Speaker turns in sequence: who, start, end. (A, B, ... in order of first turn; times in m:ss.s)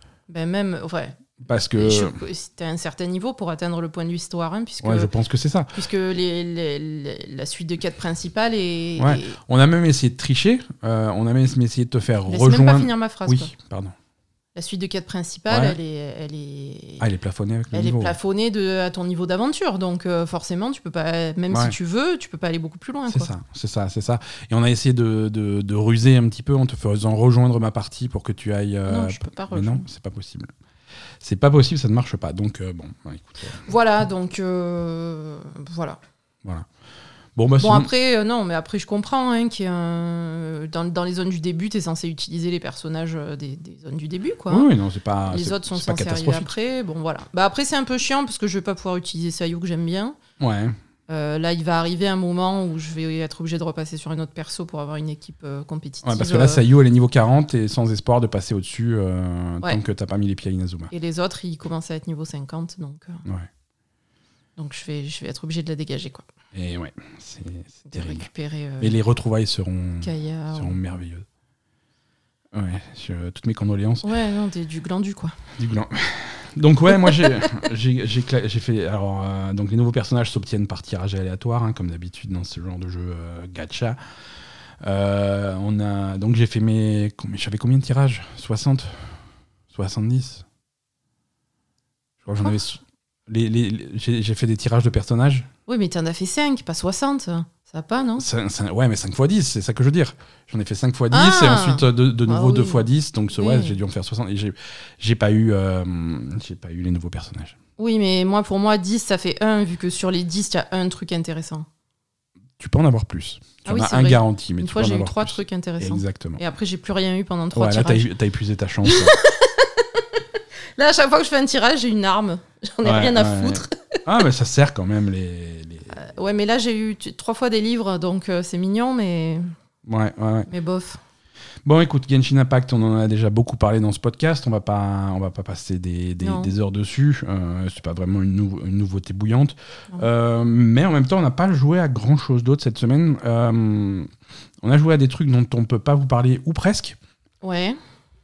0:00.3-0:05.1 A
0:01.4-0:02.2 B
0:04.8-0:05.8 B
0:05.7-0:09.4 A
0:09.0-0:14.0 B
0:12.3-0:13.5 A
0:14.6-0:17.0 A
0:15.5-0:15.8 B
0:17.0-0:18.2 B
0:17.7-0:23.3 A
0:21.5-0:21.8 B
0:23.1-0:30.5 B
0:28.9-0:29.8 A
0:31.2-0:33.6 B
0:33.6-0:36.0 A
0:37.4-0:37.9 B
0:37.6-0:44.7 A
0:44.5-0:46.5 B
0:45.3-0:50.2 A
0:50.4-0:50.8 B
0:51.1-0:56.6 A
0:56.0-1:00.9 B
1:00.9-1:03.2 A
1:04.6-1:06.3 A
1:06.5-1:08.3 B
1:07.9-1:09.0 A
1:08.8-1:11.3 B
1:10.0-1:10.8 A
1:12.5-1:14.1 B
1:14.0-1:15.4 A
1:15.6-1:24.0 B
1:16.9-1:17.5 A
1:24.8-1:29.0 B
1:29.7-1:30.4 B
1:32.2-1:35.5 B
1:35.7-1:38.2 A
1:38.2-1:47.6 B
1:41.1-1:42.8 A
1:43.4-1:43.8 A
1:47.8-1:51.7 A
1:52.6-1:56.4 B
1:53.6-1:58.1 A
1:57.5-1:59.2 B
1:58.8-2:00.2 A
2:00.8-2:04.0 A
2:02.8-2:05.9 B
2:05.9-2:09.5 A
2:09.8-2:10.5 B
2:10.5-2:11.0 A
2:11.6-2:24.1 B
2:16.2-2:16.5 A
2:24.6-2:27.0 B
2:27.4-2:27.8 A